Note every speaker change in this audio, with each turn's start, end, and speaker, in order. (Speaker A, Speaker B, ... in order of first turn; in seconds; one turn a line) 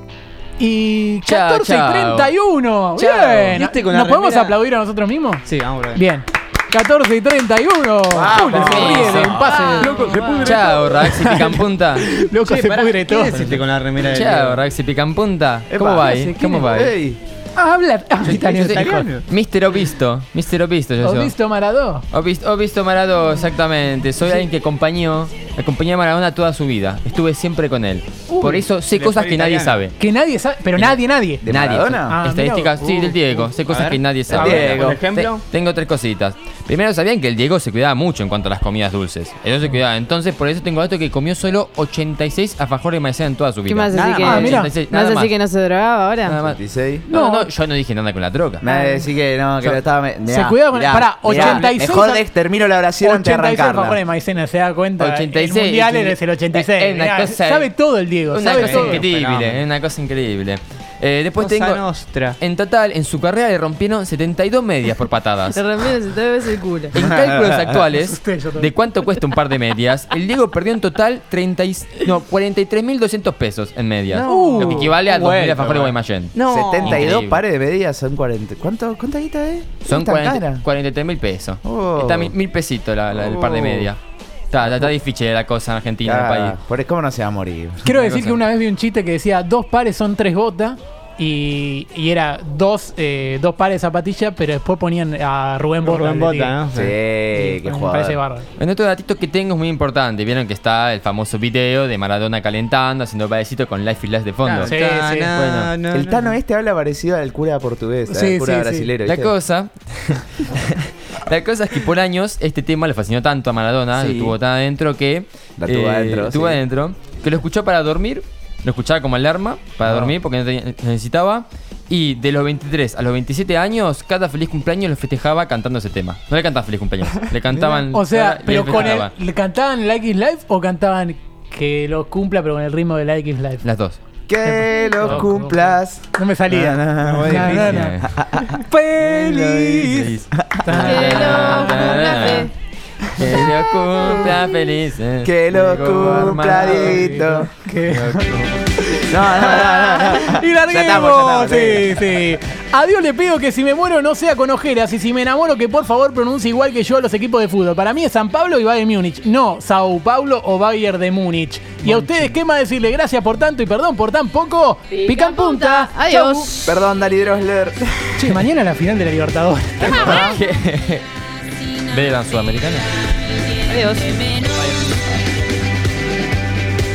Speaker A: 0.6-13.4
Speaker B: 1.2-2.3
Speaker C: 3.0-4.5
Speaker C: 5.5-6.0
Speaker D: 8.1-9.3
Speaker B: 8.5-9.5
Speaker C: 9.2-11.2
Speaker E: 9.3-10.4
Speaker B: 10.4-12.1
Speaker C: 12.4-14.6
Speaker B: 14.0-16.9
Speaker D: 15.7-17.2
Speaker A: 16.0-16.8
Speaker A: 17.6-19.1
Speaker B: 18.2-21.3
Speaker C: 18.7-19.2
Speaker A: 21.0-22.1
Speaker B: 22.1-29.9
Speaker C: 28.4-29.8
Speaker A: 30.0-31.4
Speaker B: 30.8-45.4
Speaker D: 31.4-32.2
Speaker A: 32.1-32.8
Speaker C: 32.8-35.4
Speaker D: 34.3-35.0
Speaker E: 43.7-46.4
Speaker C: 44.0-44.3
Speaker A: 44.2-44.7
Speaker B: 46.2-48.6
Speaker D: 46.4-47.1
Speaker A: 47.1-47.5
Speaker D: 48.6-54.0
Speaker A: 48.7-49.0
Speaker A: 50.3-52.2
Speaker B: 51.3-51.7
Speaker A: 53.0-59.0
Speaker B: 55.0-57.7
Speaker B: 58.3-61.9
Speaker C: 58.5-59.6
Speaker C: 61.4-62.4
Speaker B: 62.4-65.8
Speaker E: 65.5-66.9
Speaker B: 66.9-77.4
Speaker D: 67.0-67.7
Speaker A: 67.9-68.7
Speaker C: 74.1-77.1
Speaker A: 74.2-74.9
Speaker D: 76.5-80.6
Speaker B: 79.8-84.0
Speaker D: 81.6-82.3
Speaker C: 83.1-83.9
Speaker B: 84.5-86.6
Speaker D: 86.0-87.8
Speaker A: 87.8-96.5
Speaker B: 87.8-88.4
Speaker C: 95.8-97.0
Speaker D: 96.7-98.2
Speaker A: 97.3-98.5
Speaker B: 98.6-104.7
Speaker C: 104.4-106.3
Speaker A: 104.6-105.3
Speaker B: 105.3-105.7
Speaker D: 105.9-109.3
Speaker A: 108.1-108.9
Speaker B: 109.0-129.1
Speaker D: 113.9-114.3
Speaker D: 115.6-116.6
Speaker D: 119.8-120.1
Speaker A: 127.9-133.7
Speaker B: 133.6-134.0
Speaker D: 134.3-138.6
Speaker A: 134.4-138.0
Speaker C: 137.0-138.0
Speaker B: 137.6-138.1
Speaker A: 138.7-142.1
Speaker B: 138.9-142.5
Speaker D: 140.3-140.9
Speaker E: 140.7-142.5
Speaker B: 143.2-147.2
Speaker D: 143.2-144.5
Speaker D: 145.2-147.5
Speaker A: 146.4-166.5
Speaker B: 147.9-148.6
Speaker D: 149.1-152.1
Speaker E: 164.9-166.7
Speaker D: 166.6-168.4
Speaker A: 168.2-170.2
Speaker D: 169.8-170.4
Speaker B: 169.8-171.1
Speaker B: 171.7-172.9
Speaker E: 173.7-174.5